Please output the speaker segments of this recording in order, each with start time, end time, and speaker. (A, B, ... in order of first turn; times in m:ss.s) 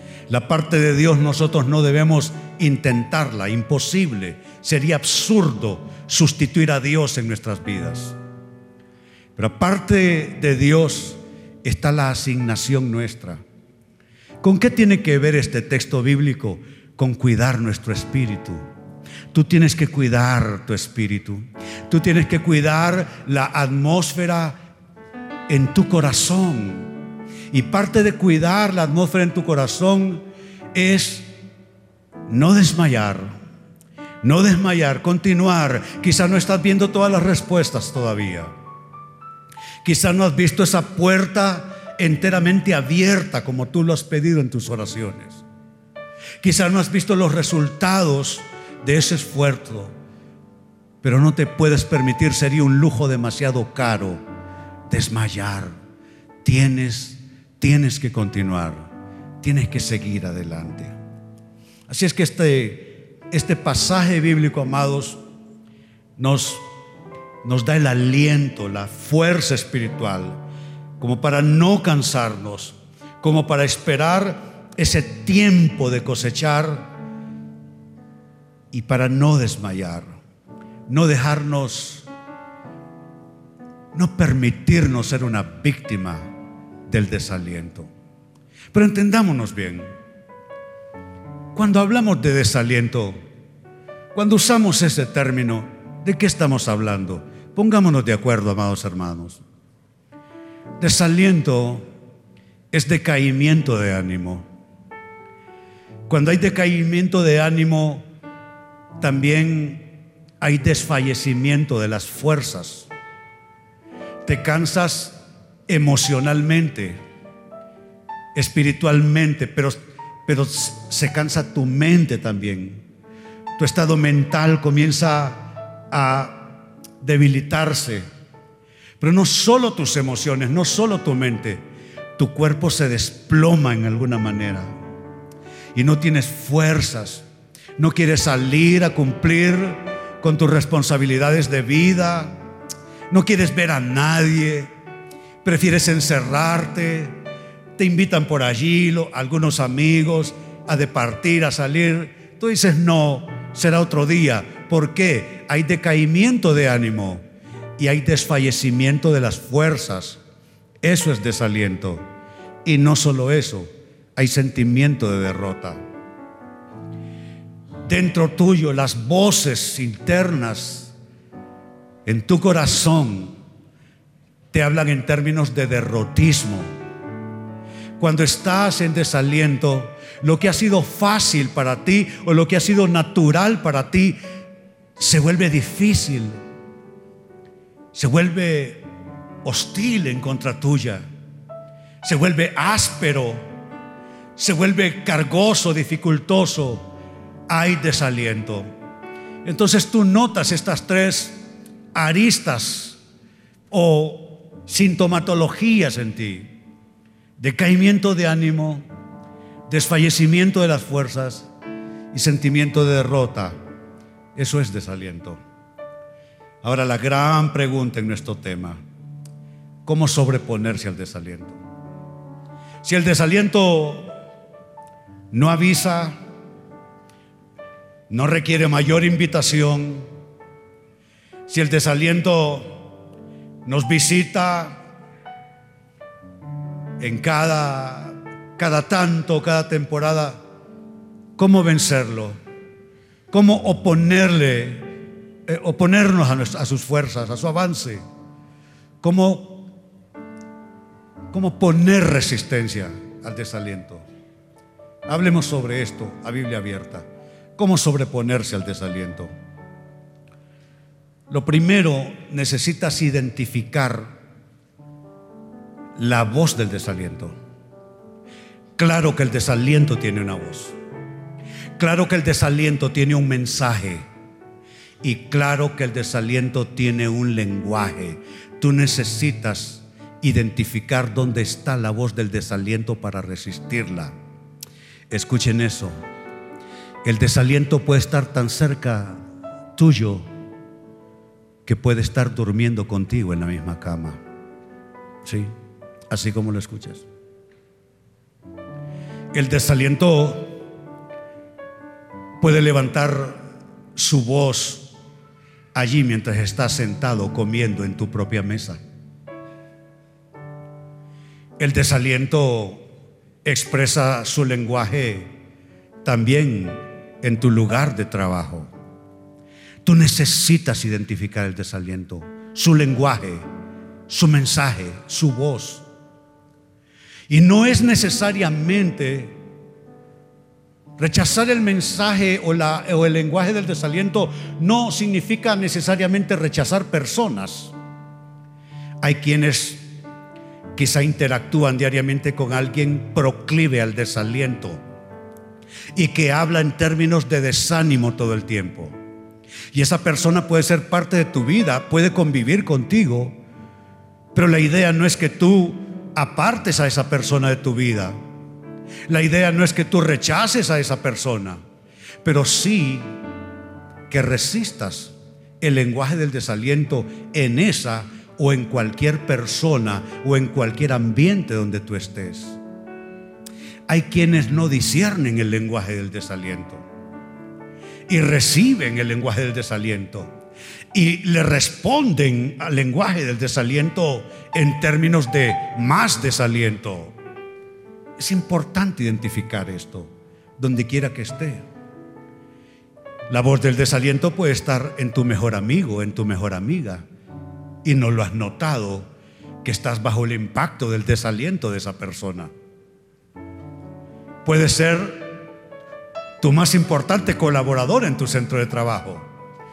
0:00.3-0:08.2 A
0:09.4-0:13.4 A
0:14.4-0:18.6 A
0:19.3-0:24.6 A
0:25.5-0:26.9 A
0:27.5-0:31.3 A
0:32.3-0:33.3 A
0:34.2-0:38.5 A
0:39.8-0:45.4 A
0:46.4-0:49.9 A
0:51.0-0:54.2 A
0:54.9-0:55.7 A
0:56.4-0:58.9 A
0:59.4-1:01.0 A
1:01.9-1:05.2 A
1:06.2-1:06.6 A
1:07.4-1:10.4 A
1:11.0-1:16.9 A
1:18.7-1:20.2 A
1:20.9-1:22.1 A
1:23.9-1:26.3 A
1:26.9-1:27.9 A
1:28.7-1:29.9 A
1:31.5-1:33.2 A
1:34.1-1:39.4 A
1:40.8-1:41.8 A
1:42.7-1:44.4 A
1:46.1-1:48.0 A
1:49.0-1:49.9 A
1:50.4-1:52.9 A
1:54.2-1:57.0 A
1:58.3-2:02.8 A
2:03.6-2:08.0 A
2:09.0-2:11.6 A
2:12.2-2:14.7 A
2:15.7-2:17.2 A
2:17.8-2:22.4 A
2:23.1-2:24.7 A
2:25.4-2:27.2 A
2:27.8-2:37.2 A
2:37.8-2:40.2 A
2:40.8-2:42.0 A
2:42.6-2:45.8 A
2:47.8-2:50.9 A
2:52.0-2:53.4 A
2:54.5-2:56.7 A
2:58.0-3:04.2 A
3:05.0-3:06.4 A
3:07.9-3:08.9 A
3:09.4-3:11.0 A
3:12.0-3:13.4 A
3:14.4-3:16.9 A
3:17.5-3:18.7 A
3:19.4-3:21.4 A
3:21.9-3:23.0 A
3:23.7-3:26.6 A
3:27.4-3:28.8 A
3:29.7-3:31.5 A
3:32.1-3:33.6 A
3:34.4-3:35.4 A
3:36.6-3:38.8 A
3:39.8-3:41.6 A
3:42.8-3:44.1 A
3:45.3-3:46.2 A
3:48.1-3:50.1 A
3:51.5-3:52.8 A
3:53.6-3:54.8 A
3:57.0-4:00.4 A
4:01.4-4:02.4 A
4:03.3-4:08.0 A
4:09.0-4:09.7 A
4:11.3-4:14.0 A
4:15.1-4:17.0 A
4:17.6-4:19.3 A
4:21.3-4:24.1 A
4:26.0-4:27.4 A
4:28.8-4:30.7 A
4:31.8-4:34.0 A
4:35.0-4:44.1 A
4:45.1-4:46.0 A
4:47.0-4:49.2 A
4:49.8-4:50.3 A
4:51.6-4:54.2 A
4:55.2-4:55.5 A
4:56.1-4:57.0 A
4:59.3-5:00.6 A
5:02.4-5:03.4 A
5:04.0-5:04.9 A
5:05.7-5:08.8 A
5:11.6-5:12.8 A
5:13.4-5:15.3 A
5:16.0-5:18.7 A
5:19.8-5:23.4 A
5:24.1-5:25.8 A
5:27.3-5:29.4 A
5:31.0-5:37.7 A
5:39.0-5:39.9 A
5:40.8-5:44.8 A
5:45.9-5:49.0 A
5:49.7-5:53.4 A
5:54.3-5:58.2 A
5:59.1-6:01.6 A
6:02.2-6:03.2 A
6:04.1-6:12.6 A
6:13.9-6:16.8 A
6:18.1-6:20.3 A
6:20.9-6:27.2 A
6:28.2-6:31.6 A
6:33.3-6:37.0 A
6:37.8-6:39.1 A
6:39.6-6:42.5 A
6:44.4-6:45.4 A
6:46.4-6:49.2 A